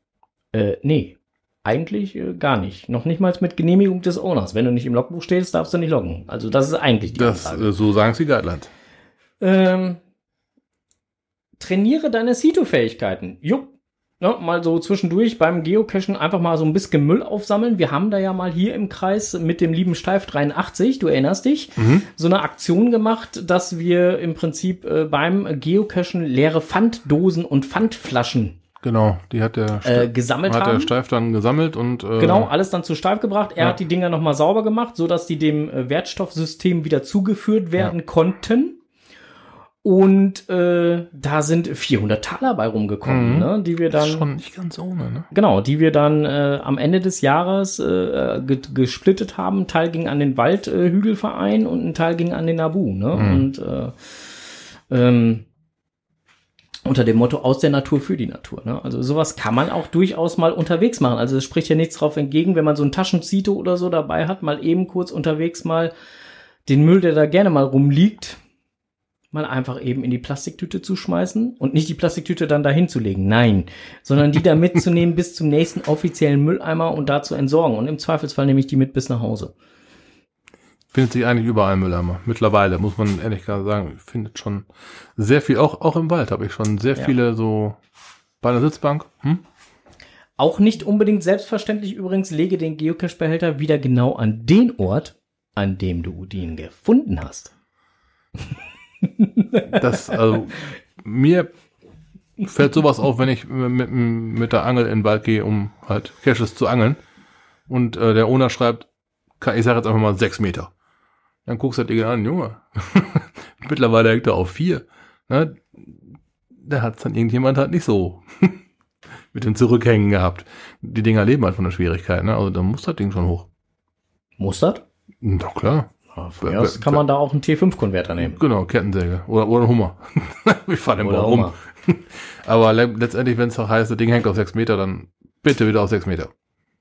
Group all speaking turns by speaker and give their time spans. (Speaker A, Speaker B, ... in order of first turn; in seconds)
Speaker A: 0.5-7.7, 9.4-10.0, 11.6-28.6, 29.8-30.9, 32.2-38.8, 39.8-44.2, 45.3-53.9, 54.9-55.5, 56.8-65.9, 66.7-68.4, 69.3-79.5, 90.4-97.5, 99.2-99.7, 124.4-124.8, 126.1-128.4, 131.0-131.5
Speaker B: 7.1-8.7, 21.8-22.1, 28.8-32.5, 43.0-45.3, 53.1-53.5, 80.9-84.7, 85.2-87.8, 88.4-89.4, 99.7-101.5, 102.4-107.0, 107.7-108.9, 109.4-110.7, 111.5-116.0, 116.6-118.6, 119.3-123.5, 125.2-127.0, 128.2-136.3